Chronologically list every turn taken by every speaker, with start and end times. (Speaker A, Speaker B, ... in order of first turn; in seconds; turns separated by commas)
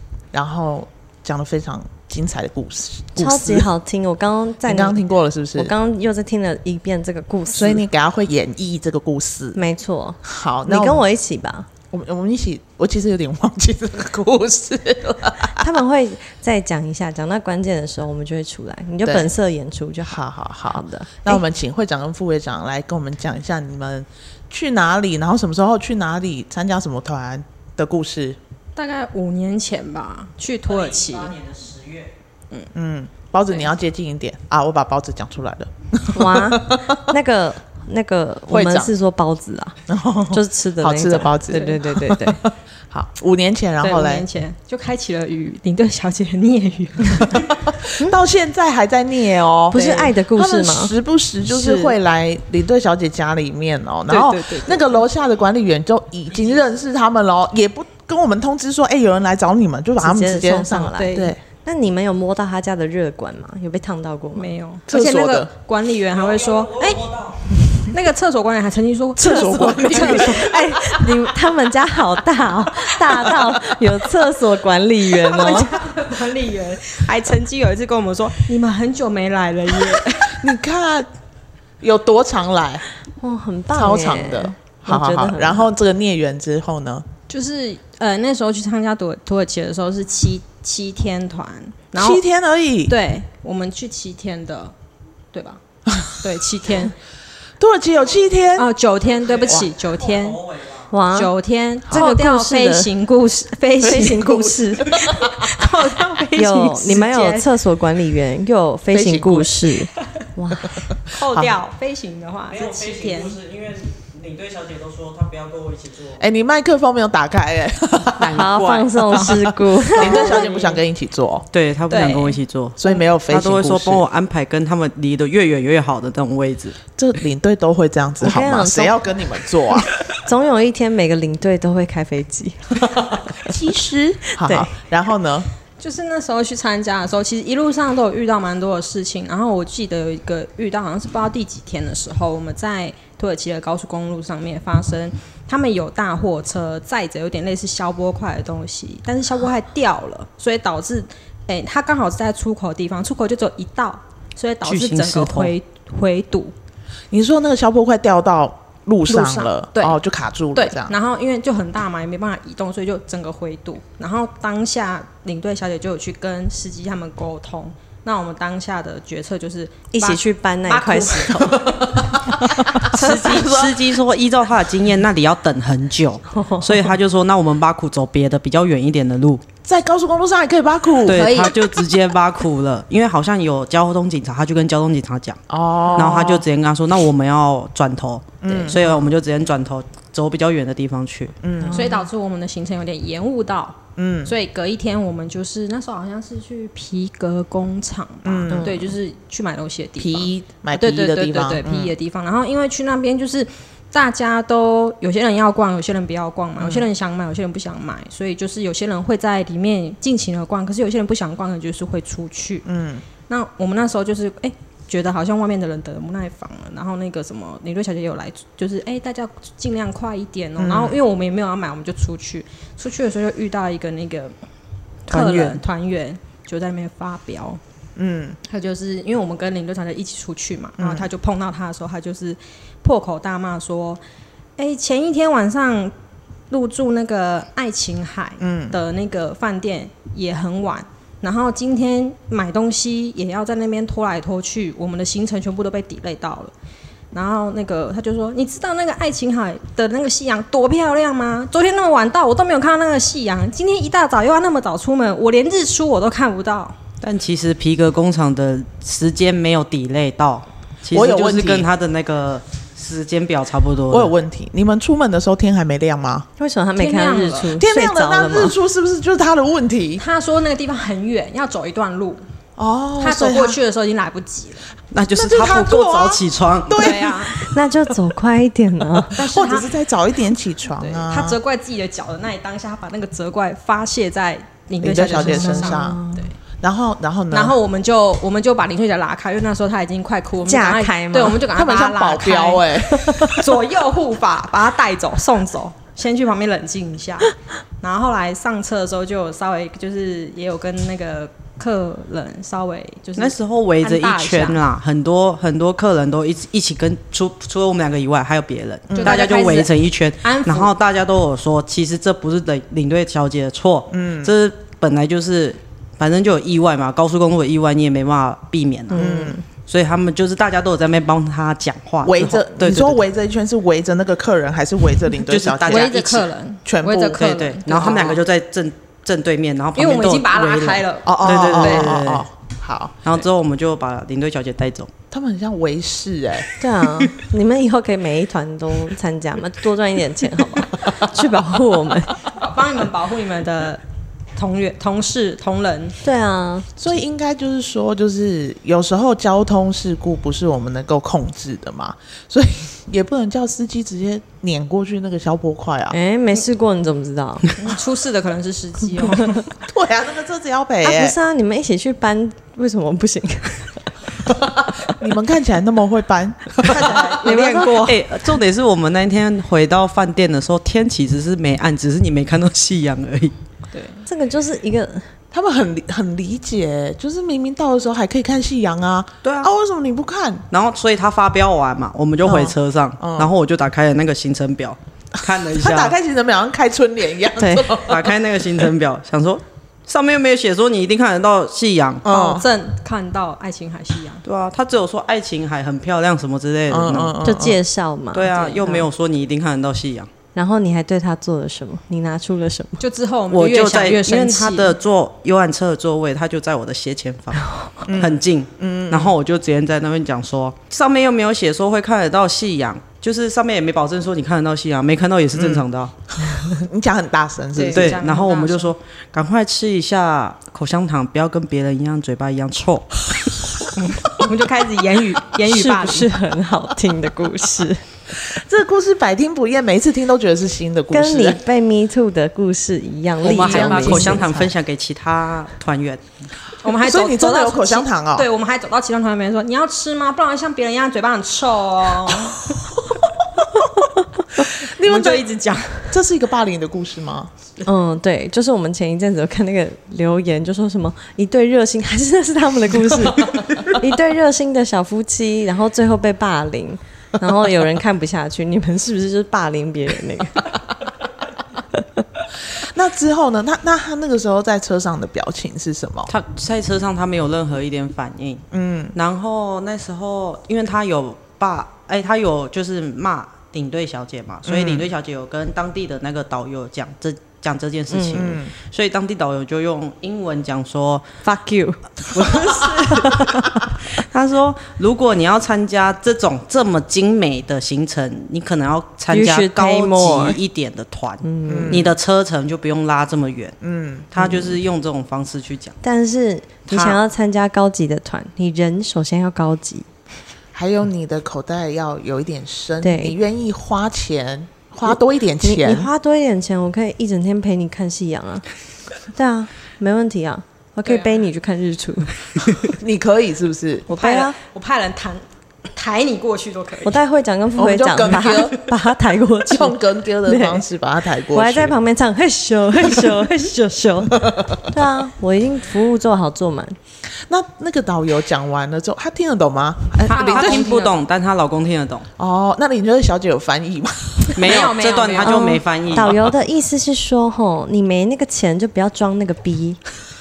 Speaker A: 0.3-3.7, Speaker B: 3.2-5.0, Speaker A: 4.7-5.7, Speaker B: 5.5-7.8, Speaker A: 7.5-9.6, Speaker B: 9.6-11.7, Speaker A: 10.2-11.0, Speaker A: 11.9-15.7, Speaker B: 15.5-21.4, Speaker A: 19.0-19.3, Speaker A: 20.1-28.4, Speaker C: 28.8-31.4, Speaker D: 31.2-32.1, Speaker A: 32.8-37.0, Speaker B: 36.1-39.8, Speaker A: 38.5-38.9, Speaker A: 39.9-44.3, Speaker B: 40.3-42.4, Speaker C: 41.5-41.8, Speaker C: 43.8-47.7, Speaker A: 47.3-61.4, Speaker B: 49.7-50.9, Speaker C: 49.7-50.1, Speaker B: 51.5-51.9, Speaker C: 54.1-55.0, Speaker B: 60.0-64.5, Speaker C: 61.0-61.4, Speaker C: 64.3-71.1, Speaker A: 64.9-65.5, Speaker D: 66.1-67.4, Speaker A: 69.2-70.5, Speaker B: 69.6-75.8, Speaker C: 75.1-80.5, Speaker A: 80.3-81.1, Speaker A: 81.8-82.8, Speaker B: 83.2-85.7, Speaker A: 83.8-87.1, Speaker C: 87.3-92.2, Speaker A: 92.0-93.0, Speaker C: 92.9-94.7, Speaker C: 95.3-95.6, Speaker A: 95.9-96.2, Speaker C: 96.2-97.0, Speaker A: 97.6-98.7, Speaker C: 98.6-100.4, Speaker D: 99.2-100.9, Speaker A: 99.4-99.7, Speaker B: 100.9-101.3, Speaker C: 101.1-104.4, Speaker B: 101.9-102.9, Speaker B: 103.8-105.2, Speaker A: 103.8-105.7, Speaker C: 105.0-107.5, Speaker B: 106.3-110.7, Speaker A: 108.9-109.7, Speaker A: 110.8-111.5, Speaker C: 111.1-113.4, Speaker D: 112.5-116.2, Speaker A: 116.2-118.5, Speaker D: 118.2-119.2, Speaker B: 118.3-120.4, Speaker A: 119.1-121.5, Speaker C: 119.9-120.8, Speaker D: 121.5-126.8, Speaker C: 121.9-122.4, Speaker A: 122.8-124.0, Speaker A: 127.0-129.9, Speaker B: 128.2-129.0, Speaker B: 130.2-133.2, Speaker A: 133.4-135.5, Speaker B: 134.4-134.7, Speaker C: 135.8-156.6, Speaker D: 154.6-155.6, Speaker A: 157.1-160.9, Speaker C: 159.1-160.0, Speaker C: 160.6-172.2, Speaker B: 169.9-171.8, Speaker A: 171.7-173.8, Speaker C: 172.8-173.6, Speaker D: 172.9-179.4, Speaker B: 176.3-176.8, Speaker A: 179.7-181.4, Speaker D: 181.1-185.4, Speaker C: 181.1-181.6, Speaker A: 185.5-186.5, Speaker D: 185.9-191.4, Speaker A: 188.4-188.9, Speaker C: 188.5-188.8, Speaker A: 191.4-191.9, Speaker B: 191.6-192.0, Speaker C: 191.7-212.7, Speaker A: 194.0-194.3, Speaker A: 198.2-198.8, Speaker B: 198.5-198.9, Speaker A: 200.0-201.9, Speaker A: 206.6-206.9, Speaker A: 212.7-213.0, Speaker C: 213.3-224.3, Speaker A: 220.6-221.0, Speaker C: 225.1-227.6, Speaker A: 225.1-225.6, Speaker A: 228.0-228.4, Speaker C: 228.5-234.0, Speaker A: 230.8-231.1, Speaker C: 234.6-235.9, Speaker C: 236.5-246.5, Speaker A: 238.4-238.8, Speaker C: 247.1-256.8, Speaker D: 257.0-264.1, Speaker A: 260.9-261.7, Speaker A: 263.9-266.3, Speaker B: 266.4-268.5, Speaker C: 266.8-267.6, Speaker A: 267.6-270.0, Speaker C: 270.0-272.2, Speaker A: 272.6-273.6, Speaker C: 273.0-274.7, Speaker D: 274.9-277.0, Speaker A: 275.1-277.5, Speaker C: 276.8-277.4, Speaker B: 277.3-279.2, Speaker C: 279.1-279.7, Speaker A: 279.1-281.4, Speaker C: 280.7-286.4, Speaker A: 284.8-286.0, Speaker B: 285.1-286.3, Speaker A: 286.6-287.6, Speaker C: 287.3-304.6, Speaker B: 290.4-291.4, Speaker A: 291.5-293.5, Speaker D: 303.2-323.0, Speaker A: 308.9-309.2, Speaker C: 309.0-310.7, Speaker A: 313.9-314.3, Speaker B: 318.9-319.4, Speaker A: 318.9-319.4, Speaker A: 322.0-325.9, Speaker D: 325.3-326.3, Speaker C: 325.7-328.2, Speaker A: 326.6-328.2, Speaker D: 327.1-332.2, Speaker C: 329.8-332.0, Speaker A: 331.1-333.0, Speaker D: 333.0-334.9, Speaker A: 335.1-336.5, Speaker B: 336.6-342.2, Speaker C: 342.3-343.8, Speaker C: 344.4-346.0, Speaker B: 346.0-346.7, Speaker A: 346.8-356.0, Speaker B: 355.9-357.5, Speaker C: 357.6-359.5, Speaker A: 359.6-361.2, Speaker B: 360.8-363.9, Speaker A: 364.3-367.2, Speaker C: 366.6-367.9, Speaker B: 367.2-367.9, Speaker D: 367.2-373.3, Speaker C: 373.7-374.1, Speaker B: 374.1-375.1, Speaker A: 375.3-380.4, Speaker D: 379.2-379.5, Speaker D: 380.5-385.9, Speaker A: 382.2-383.3, Speaker A: 385.5-388.2, Speaker B: 387.4-387.8, Speaker D: 387.9-392.1, Speaker A: 392.1-392.5, Speaker C: 392.1-394.2, Speaker D: 394.2-397.2, Speaker A: 396.7-397.6, Speaker B: 397.2-398.8, Speaker D: 398.1-400.1, Speaker C: 398.2-398.8, Speaker B: 400.4-402.8, Speaker C: 402.8-404.8, Speaker D: 403.3-415.9, Speaker A: 407.9-409.1, Speaker A: 415.3-415.6, Speaker A: 416.2-418.0, Speaker C: 417.6-418.7, Speaker D: 417.7-423.0, Speaker C: 424.0-426.1, Speaker B: 425.5-427.8, Speaker A: 428.1-431.4, Speaker B: 430.9-434.4, Speaker D: 433.2-436.0, Speaker C: 433.3-434.2, Speaker A: 433.4-434.4, Speaker C: 436.6-442.5, Speaker A: 436.8-438.3, Speaker A: 442.1-445.3, Speaker C: 444.6-446.0, Speaker A: 445.9-447.3, Speaker B: 447.6-460.5, Speaker A: 462.5-466.1, Speaker D: 466.1-481.1, Speaker A: 468.5-468.9, Speaker A: 474.4-474.9, Speaker B: 477.9-478.3, Speaker A: 478.1-478.5, Speaker B: 481.2-483.6, Speaker D: 482.1-483.3, Speaker D: 483.8-493.6, Speaker B: 489.1-490.4, Speaker B: 491.2-491.9, Speaker A: 491.5-491.9, Speaker A: 493.6-494.1, Speaker D: 494.1-495.8, Speaker B: 495.8-499.9, Speaker D: 496.7-497.0, Speaker A: 500.5-505.9, Speaker B: 502.8-503.1, Speaker B: 505.4-508.5, Speaker B: 509.1-512.1, Speaker C: 510.9-511.1, Speaker A: 512.6-513.9, Speaker B: 513.9-514.4, Speaker C: 513.9-517.0, Speaker B: 516.9-520.6, Speaker A: 517.6-518.6, Speaker A: 519.5-521.8, Speaker B: 521.3-526.8, Speaker A: 524.2-524.6, Speaker A: 527.2-530.7, Speaker C: 530.1-531.0, Speaker D: 530.1-532.1, Speaker A: 532.2-534.5, Speaker D: 534.4-536.2, Speaker C: 534.4-535.6, Speaker B: 535.2-539.8